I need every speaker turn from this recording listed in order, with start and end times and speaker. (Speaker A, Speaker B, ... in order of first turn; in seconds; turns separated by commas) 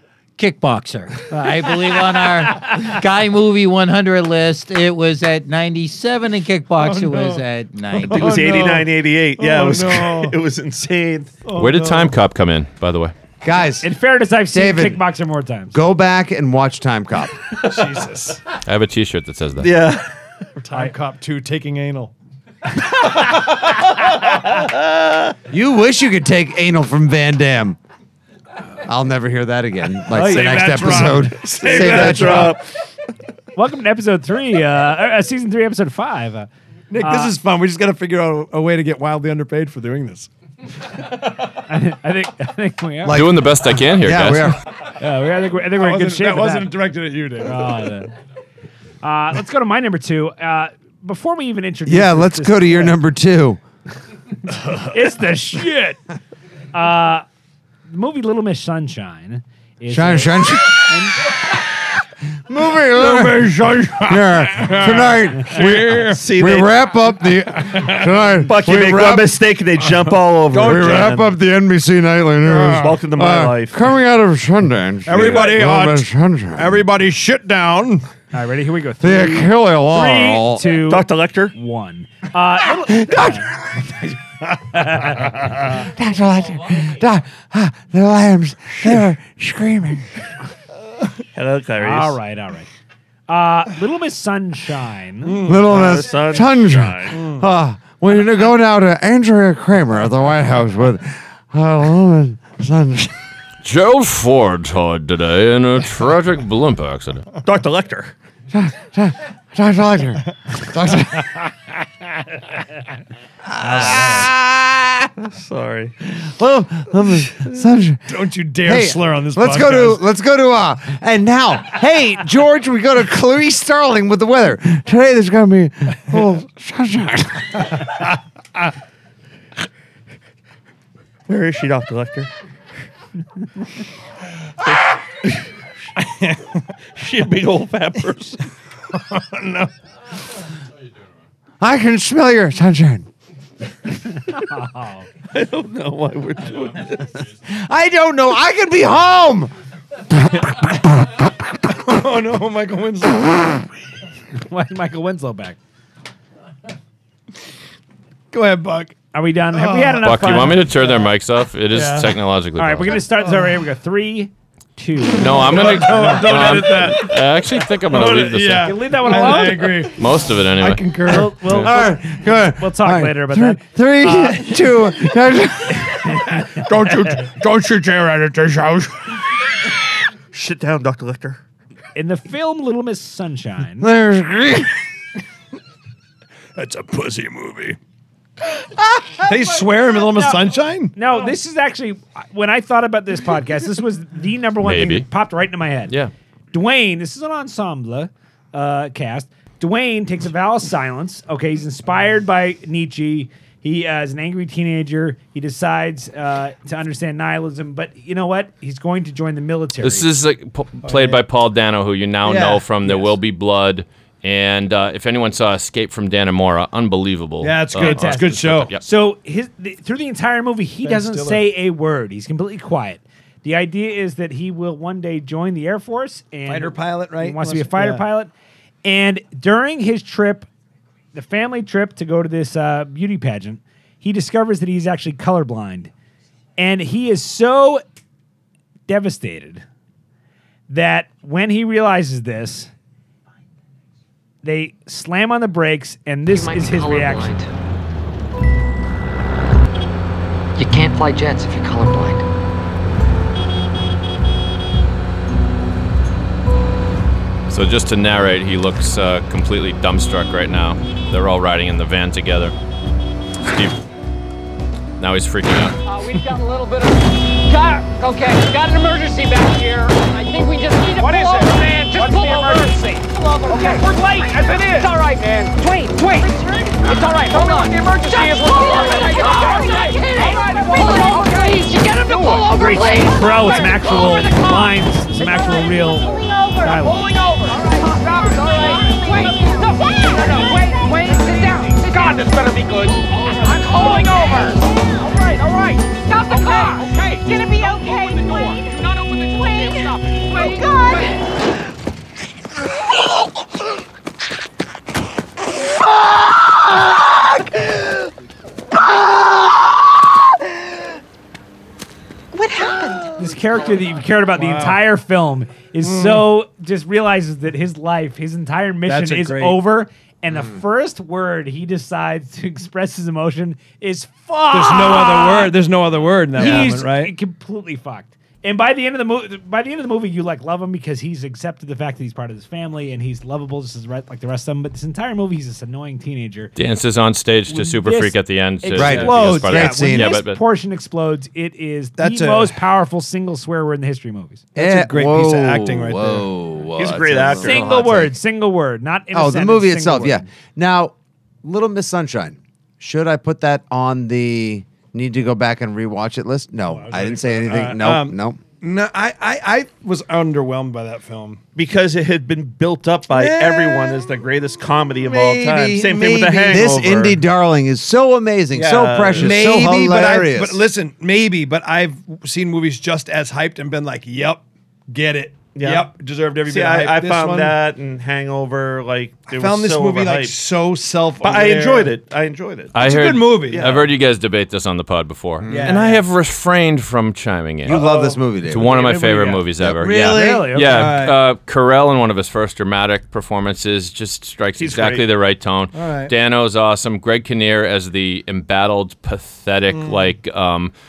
Speaker A: 0.4-8.2, Speaker B: 6.8-10.3, Speaker C: 8.0-11.3, Speaker B: 11.4-12.2, Speaker D: 11.6-13.1, Speaker E: 13.4-13.9, Speaker F: 13.8-15.8, Speaker E: 14.5-15.0, Speaker E: 15.7-17.3, Speaker B: 17.6-18.4, Speaker D: 18.6-19.7, Speaker C: 19.6-20.0, Speaker B: 20.6-22.1, Speaker C: 24.6-25.1, Speaker E: 25.5-27.8, Speaker E: 28.8-32.6, Speaker B: 30.1-32.5, Speaker C: 31.4-32.6, Speaker F: 33.5-36.5, Speaker B: 36.9-40.3, Speaker F: 37.0-37.3, Speaker F: 41.7-43.2, Speaker E: 43.1-43.4, Speaker D: 43.1-44.5, Speaker E: 44.0-44.6, Speaker F: 45.0-46.8, Speaker B: 45.7-47.8, Speaker F: 47.4-48.1, Speaker F: 49.0-53.0, Speaker E: 51.9-53.6, Speaker F: 54.9-56.0, Speaker F: 56.7-57.2, Speaker F: 57.9-61.2, Speaker E: 59.9-60.9, Speaker E: 62.5-69.3, Speaker B: 62.9-66.2, Speaker C: 66.1-66.8, Speaker B: 67.7-68.0, Speaker C: 68.4-71.2, Speaker B: 70.5-71.2, Speaker E: 70.5-76.8, Speaker B: 72.5-72.8, Speaker C: 72.7-73.8, Speaker B: 75.0-78.0, Speaker F: 78.3-83.5, Speaker E: 79.0-80.7, Speaker C: 80.8-81.5, Speaker E: 82.8-83.5, Speaker F: 84.7-85.3, Speaker E: 85.8-90.1, Speaker C: 91.3-92.2, Speaker F: 91.8-92.7, Speaker F: 93.3-95.4, Speaker B: 95.2-96.0, Speaker E: 95.4-103.1, Speaker C: 95.7-97.2, Speaker B: 97.1-97.5, Speaker D: 103.6-107.2, Speaker C: 107.4-108.1, Speaker E: 108.5-111.3, Speaker E: 113.6-115.1, Speaker B: 113.6-114.3, Speaker C: 115.2-115.9, Speaker E: 116.2-118.0, Speaker B: 118.1-120.0, Speaker E: 118.6-127.7, Speaker C: 131.3-132.3, Speaker C: 134.7-135.3, Speaker B: 136.0-136.6, Speaker C: 137.0-138.4, Speaker B: 138.9-139.7, Speaker E: 141.6-143.1, Speaker F: 144.3-145.1, Speaker C: 145.3-147.1, Speaker E: 147.4-149.5, Speaker B: 151.7-153.6, Speaker F: 154.4-155.6, Speaker B: 158.3-158.9, Speaker F: 159.1-160.7, Speaker B: 159.5-160.1, Speaker D: 160.0-163.0, Speaker B: 161.7-162.1, Speaker F: 162.6-166.8, Speaker B: 163.2-163.5, Speaker D: 165.1-168.7, Speaker B: 165.4-170.1, Speaker F: 168.6-169.8, Speaker D: 169.2-170.9, Speaker B: 170.6-171.3, Speaker F: 171.1-174.6, Speaker D: 171.4-171.7, Speaker E: 171.6-176.2, Speaker B: 176.4-178.9, Speaker C: 180.3-181.4, Speaker F: 181.9-183.9, Speaker E: 183.8-184.7, Speaker B: 186.6-187.8, Speaker B: 189.2-190.9, Speaker F: 189.3-190.4, Speaker F: 190.9-195.9, Speaker D: 194.6-195.1, Speaker F: 196.5-210.1, Speaker D: 209.8-218.8, Speaker B: 210.8-211.2, Speaker B: 212.2-213.2, Speaker B: 217.4-218.7, Speaker F: 217.8-228.3, Speaker B: 220.8-221.4, Speaker B: 226.5-228.1, Speaker F: 228.8-230.5, Speaker F: 231.1-235.9, Speaker F: 236.6-237.8, Speaker F: 238.9-239.6, Speaker F: 240.7-242.7, Speaker F: 244.4-247.4, Speaker G: 246.4-247.4, Speaker G: 250.9-251.8, Speaker D: 257.5-262.5, Speaker D: 263.4-263.8, Speaker D: 265.0-265.8, Speaker H: 265.9-284.4, Speaker F: 271.0-272.9, Speaker F: 273.5-274.5, Speaker F: 282.4-287.1, Speaker H: 285.9-301.2, Speaker F: 313.2-325.5, Speaker B: 314.4-314.8, Speaker B: 315.8-316.3, Speaker B: 318.9-319.6, Speaker E: 320.3-320.6, Speaker B: 324.5-327.1, Speaker F: 326.4-336.5, Speaker D: 336.6-340.4, Speaker F: 337.5-344.4, Speaker E: 338.8-340.2, Speaker B: 342.0-342.6, Speaker B: 344.5-346.3, Speaker E: 344.6-348.1, Speaker C: 346.8-347.6, Speaker F: 347.4-350.2, Speaker E: 349.1-358.4, Speaker B: 356.7-361.4, Speaker C: 361.6-367.2, Speaker B: 363.1-364.0, Speaker E: 365.0-370.6, Speaker C: 368.5-369.4, Speaker B: 369.1-377.6, Speaker C: 375.5-375.9, Speaker C: 376.4-380.4, Speaker B: 379.3-381.9, Speaker C: 381.2-382.7, Speaker D: 382.7-387.9, Speaker B: 382.8-383.8, Speaker C: 383.5-383.9, Speaker E: 385.4-385.8, Speaker B: 385.5-386.1, Speaker E: 387.6-388.7, Speaker B: 387.7-388.2, Speaker D: 388.4-400.7, Speaker F: 388.6-390.9, Speaker B: 389.8-391.2, Speaker C: 394.6-395.1, Speaker B: 395.7-396.1, Speaker B: 399.7-400.1